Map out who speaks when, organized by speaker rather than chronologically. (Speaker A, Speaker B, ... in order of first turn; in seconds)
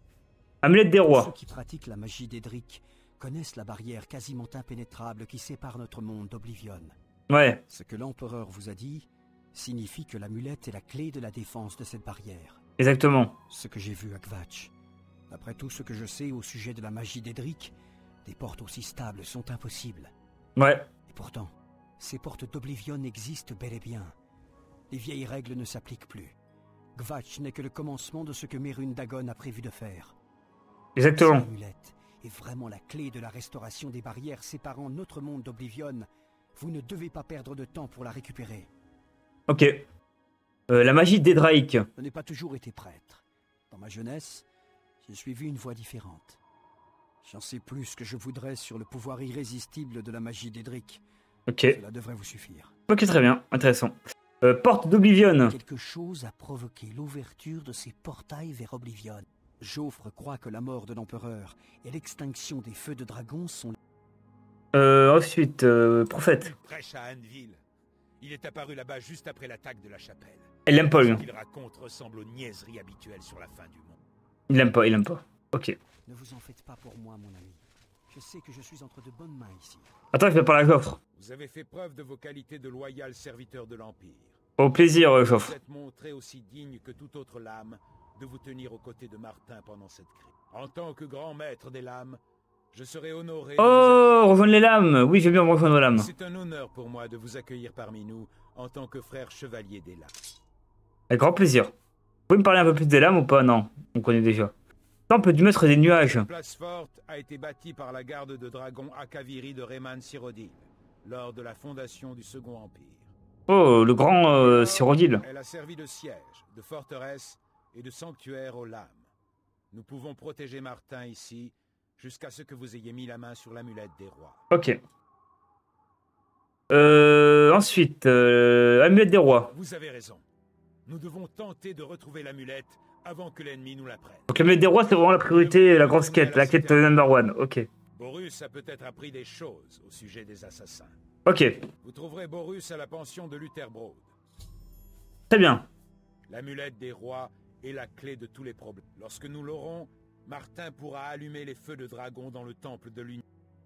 Speaker A: 0.6-1.3, 7.3-7.6, 12.8-13.4, 20.6-20.9, 31.0-31.5, 39.5-39.9, 40.7-41.9, 51.5-51.8, 52.9-55.6, 64.7-66.5, 70.7-71.2, 74.5-75.8, 80.1-81.0, 84.6-85.5, 93.6-96.1, 101.1-101.7, 102.3-104.5, 105.1-106.3, 113.5-115.2, 124.5-124.8, 126.7-129.5, 134.3-137.7, 141.3-141.7, 145.3-145.7
Speaker B: 1.1-7.0, 7.7-12.6, 13.5-14.7, 15.3-20.1, 21.1-24.1, 24.9-26.4, 27.0-30.2, 31.1-38.7, 42.0-44.5, 45.0-46.4, 47.2-51.0, 51.6-52.7, 55.5-63.8, 76.1-79.9
Speaker C: 66.5-67.6, 68.2-74.0, 81.2-84.4, 85.2-92.2, 92.7-94.0, 95.9-100.1, 106.0-113.1, 114.4-119.1, 119.7-124.5, 129.5-130.2, 130.9-134.3, 135.2-137.0, 137.9-141.0, 141.8-144.1, 146.3-153.2